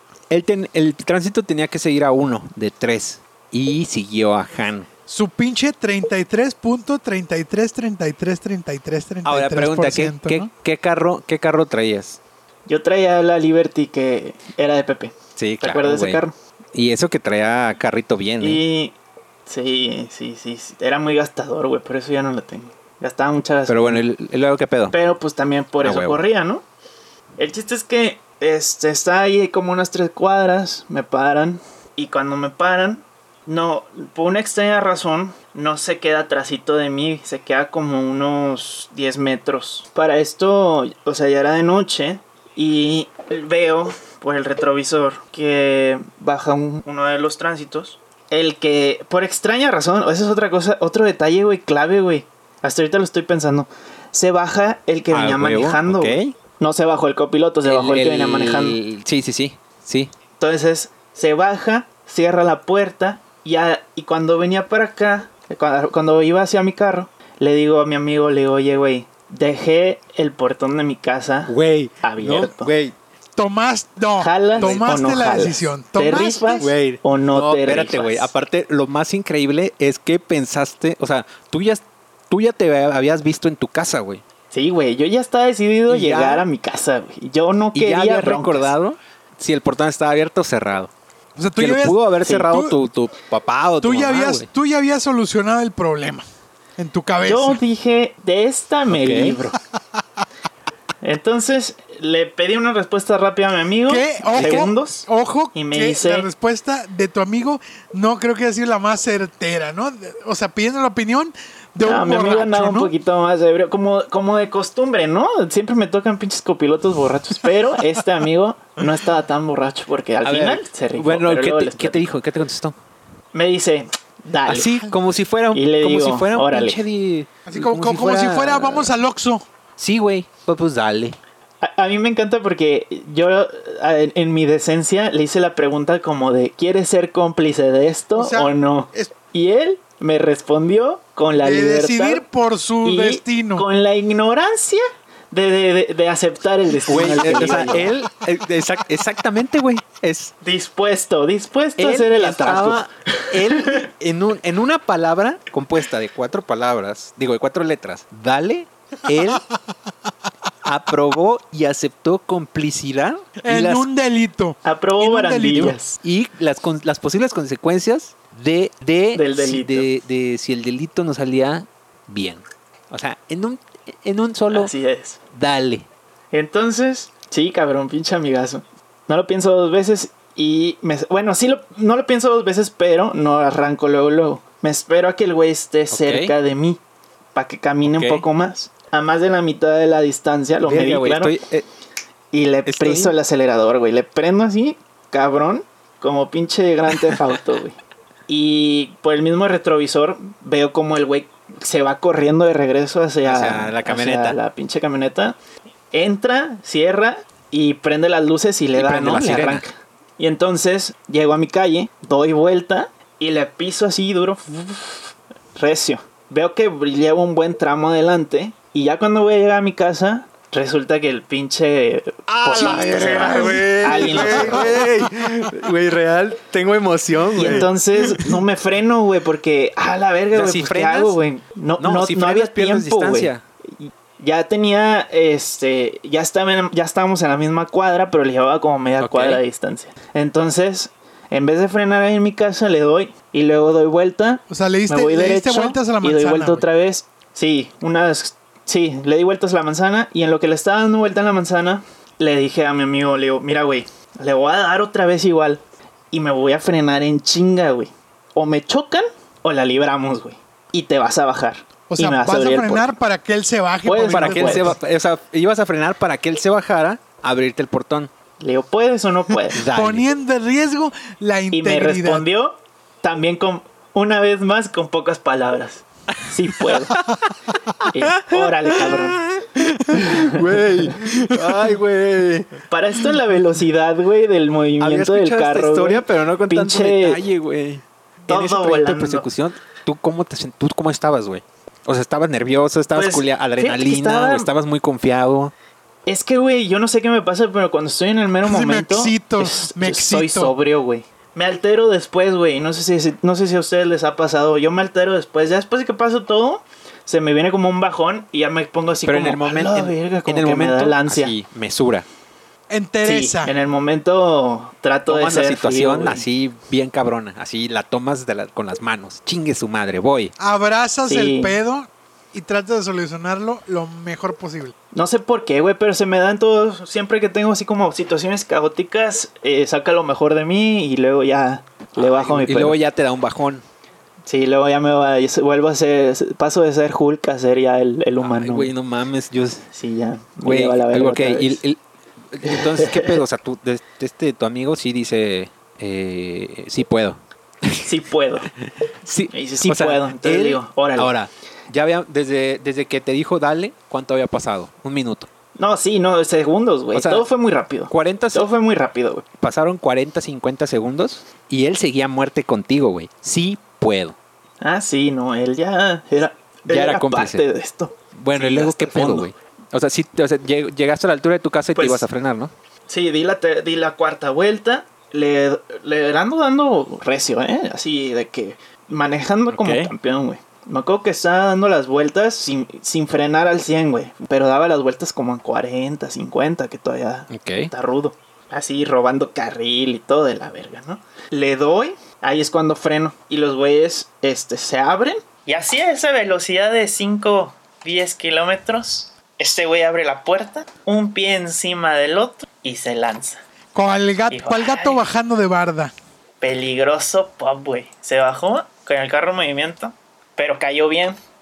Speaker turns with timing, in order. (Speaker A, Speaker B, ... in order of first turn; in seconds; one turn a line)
Speaker A: 0.3-4.9
Speaker B: 5.1-10.5
Speaker A: 9.2-12.2
Speaker C: 12.7-16.3
Speaker A: 15.4-16.2
Speaker A: 16.7-18.6
Speaker C: 18.4-18.9
Speaker C: 19.5-24.0
Speaker A: 23.7-25.0
Speaker C: 24.9-26.6
Speaker A: 25.8-26.2
Speaker C: 27.4-58.8
Speaker A: 55.1-56.3
Speaker A: 57.6-60.1
Speaker C: 60.4-72.7
Speaker A: 71.5-72.9
Speaker B: 73.4-76.7
Speaker C: 74.2-78.3
Speaker A: 74.5-75.5
Speaker A: 76.6-84.2
Speaker C: 84.5-88.7
Speaker A: 85.9-86.5
Speaker A: 87.8-90.9
Speaker B: 91.4-92.8
Speaker A: 91.6-94.5
Speaker B: 93.8-96.2
Speaker B: 96.8-97.6
Speaker C: 97.2-99.6
Speaker A: 98.9-99.4
Speaker C: 101.0-106.3
Speaker B: 103.9-112.9
Speaker A: 104.3-104.7
Speaker C: 111.8-122.0
Speaker A: 120.2-122.8
Speaker C: 123.3-124.7
Speaker A: 124.5-128.9
Speaker C: 125.5-126.8
Speaker B: 127.5-129.4
Speaker A: 129.8-131.2
Speaker C: 131.6-142.2
Speaker B: 138.2-139.1
Speaker B: 141.4-143.7
Speaker C: 142.8-147.9
Speaker A: 146.9-150.3
Speaker C: 150.4-153.8
Speaker A: 151.8-159.4
Speaker A: 160.7-163.9
Speaker B: 163.4-165.8
Speaker C: 164.6-166.0
Speaker A: 166.0-174.7
Speaker C: 169.1-169.9
Speaker C: 174.5-175.2
Speaker A: 175.3-175.9
Speaker C: 176.3-186.8
Speaker A: 185.9-186.3
Speaker C: 187.3-191.3
Speaker A: 187.8-188.2
Speaker A: 190.6-191.7
Speaker C: 192.3-197.8
Speaker A: 192.7-193.1
Speaker C: 198.3-205.4
Speaker A: 203.2-204.4
Speaker C: 205.9-224.8
Speaker A: 208.8-209.6
Speaker A: 222.3-227.7
Speaker B: 222.6-224.8
Speaker C: 227.4-263.0
Speaker B: 227.4-227.7
Speaker A: 230.3-231.2
Speaker A: 231.8-233.4
Speaker A: 239.0-239.4
Speaker B: 244.5-246.7
Speaker B: 261.9-264.8
Speaker C: 263.8-264.7
Speaker A: 264.1-268.1
Speaker C: 268.4-269.6
Speaker A: 269.5-270.1
Speaker B: 269.7-272.3
Speaker C: 271.5-277.0
Speaker A: 276.6-277.2
Speaker A: 277.8-282.6
Speaker C: 277.9-279.2
Speaker C: 279.9-280.4
Speaker B: 280.8-281.8
Speaker C: 282.7-287.2
Speaker A: 284.8-295.5
Speaker C: 288.3-289.3
Speaker C: 292.9-294.5
Speaker C: 296.1-311.4
Speaker B: 298.4-300.5
Speaker A: 309.1-312.1
Speaker B: 312.7-313.5
Speaker C: 313.0-316.2
Speaker A: 315.1-320.3
Speaker B: 320.4-324.8
Speaker C: 321.1-321.6
Speaker C: 324.9-332.8
Speaker A: 332.0-333.6
Speaker C: 334.3-338.7
Speaker A: 338.2-339.7
Speaker C: 339.7-341.6
Speaker A: 340.4-341.8
Speaker A: 342.3-347.9
Speaker C: 342.4-343.2
Speaker C: 347.8-348.5
Speaker A: 349.0-355.3
Speaker C: 349.3-351.1
Speaker C: 355.6-359.2
Speaker A: 356.9-357.3
Speaker A: 357.9-358.5
Speaker A: 359.4-364.2
Speaker C: 364.6-369.3
Speaker A: 366.7-367.4
Speaker A: 368.1-372.5
Speaker C: 371.8-372.1
Speaker C: 372.9-403.4
Speaker A: 379.5-379.9
Speaker A: 387.3-387.7
Speaker B: 403.7-405.9
Speaker C: 404.3-405.0
Speaker C: 406.4-411.2